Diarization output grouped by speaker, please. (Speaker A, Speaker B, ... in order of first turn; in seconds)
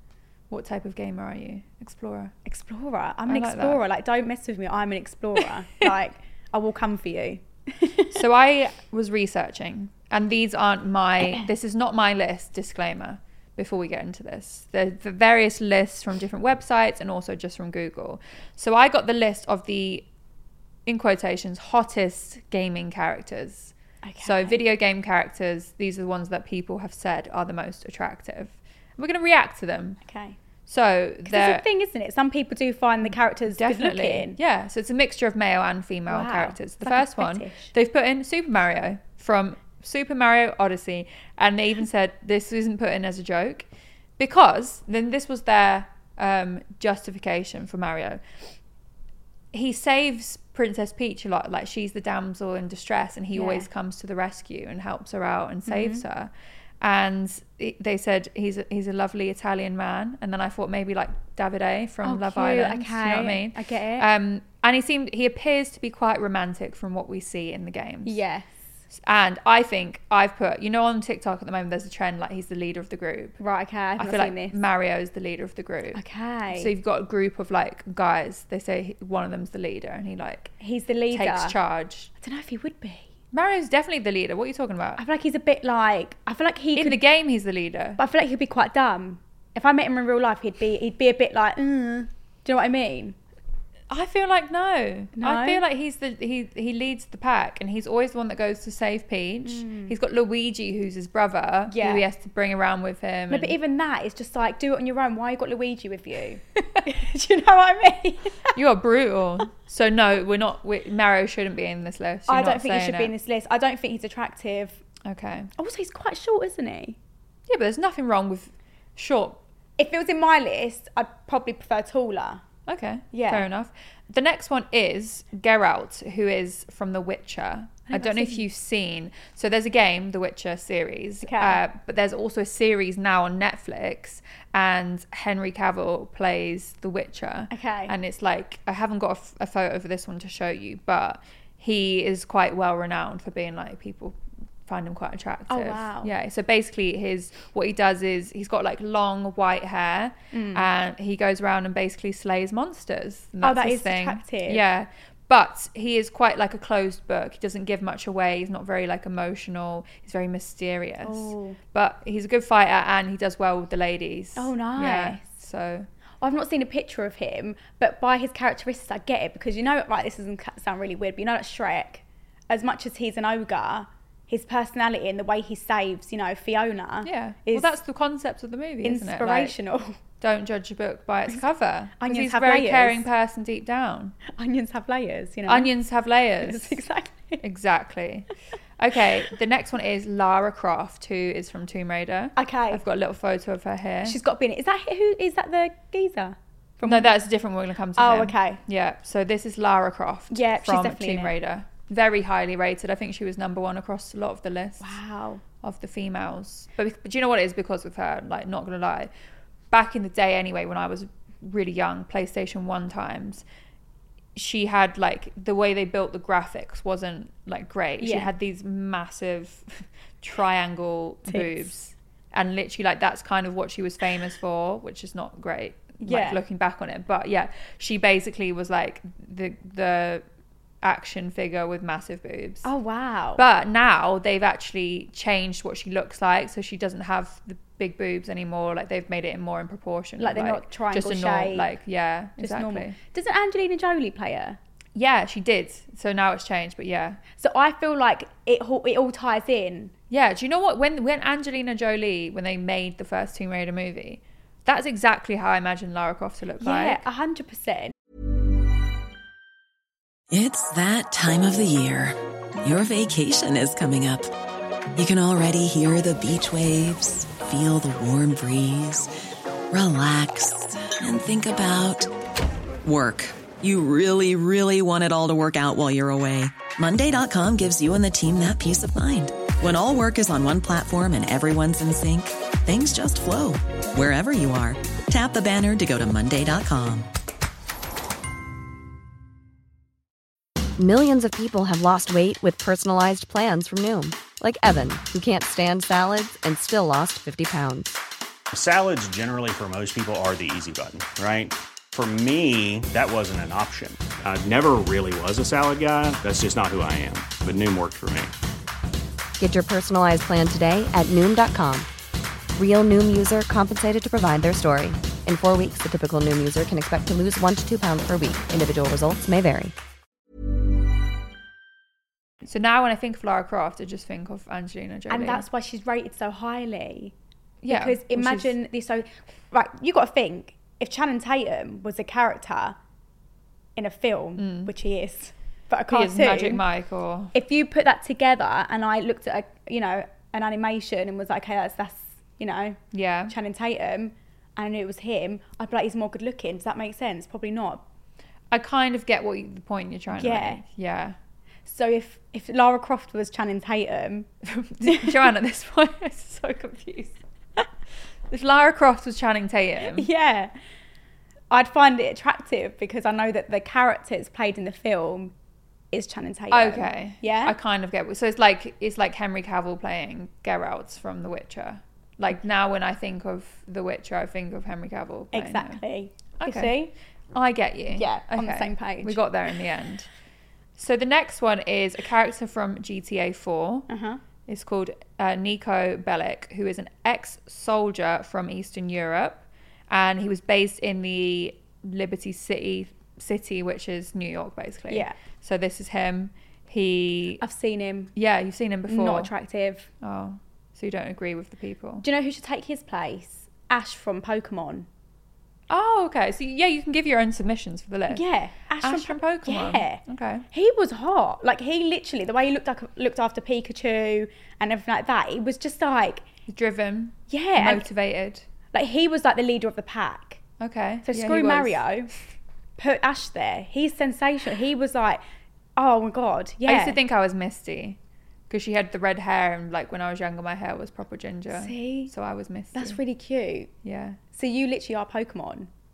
Speaker A: 0.5-2.3, 3.3-3.8, 8.1-20.1, 20.9-30.0, 30.7-31.6, 33.5-43.7, 44.2-48.2, 49.5-68.2, 69.0-73.4, 74.0-80.6, 81.1-82.1, 83.3-85.0, 86.8-88.0, 93.9-103.6, 108.5-113.1, 115.0-115.5, 117.5-119.4, 122.7-165.9, 177.0-179.6, 180.2-184.2, 185.5-186.8, 187.4-194.2, 196.8-205.0, 205.6-209.1, 209.7-213.4, 214.4-230.2, 230.8-232.7, 233.4-243.0, 245.0-247.2, 250.1-257.0, 322.4-325.4, 327.6-328.5, 334.4-334.7, 335.9-337.3, 342.9-343.3, 348.5-351.2, 354.5-357.2, 358.3-360.1, 366.5-375.8, 376.4-376.8, 377.3-380.1, 380.8-383.9, 384.5-397.4, 398.1-399.3, 400.0-402.1, 405.7-408.2, 408.8-410.5, 416.5-418.4, 420.6-421.8, 426.7-428.0, 428.5-433.0, 433.8-434.2
Speaker B: 2.5-8.2, 24.0-24.6, 30.0-30.4, 31.3-34.4, 36.1-37.7, 53.3-53.7, 55.7-56.0, 62.0-64.1, 68.0-68.5, 73.4-74.6, 76.0-76.7, 80.6-81.6, 82.2-83.1, 85.0-87.0, 88.0-93.2, 95.2-95.6, 99.5-99.9, 101.7-102.1, 103.3-108.5, 112.3-114.8, 115.6-117.0, 119.8-122.4, 123.1-123.5, 127.9-128.4, 131.2-131.6, 137.5-137.9, 145.5-146.1, 150.3-150.7, 153.4-154.6, 161.0-161.6, 164.4-165.2, 166.2-177.7, 178.8-180.0, 182.0-183.1, 184.3-185.7, 186.4-187.4, 192.4-192.8, 194.1-197.1, 198.0-198.6, 200.3-201.3, 204.8-205.4, 218.0-218.3, 221.3-221.7, 226.0-226.4, 232.6-233.4, 240.2-241.7, 242.4-244.6, 247.4-249.9, 256.6-257.9, 325.1-327.1, 327.7-332.8, 333.8-336.6, 337.3-342.8, 343.3-347.8, 350.1-350.6, 351.7-354.3, 354.9-355.2, 359.9-360.5, 361.5-365.3, 365.9-367.6, 375.3-376.9, 377.9-379.2, 383.9-384.2, 394.9-395.1, 397.4-398.1, 398.9-399.9, 402.0-404.9, 408.1-416.2, 417.3-417.9, 418.7-420.4, 421.1-422.1, 422.8-425.2, 425.8-427.0, 431.5-432.1, 432.8-433.7, 434.3-435.7
Speaker C: 260.3-264.3, 264.9-269.1, 269.7-272.1, 272.8-287.1
Speaker D: 290.8-298.0, 309.4-311.9, 312.6-319.7
Speaker E: 298.5-308.4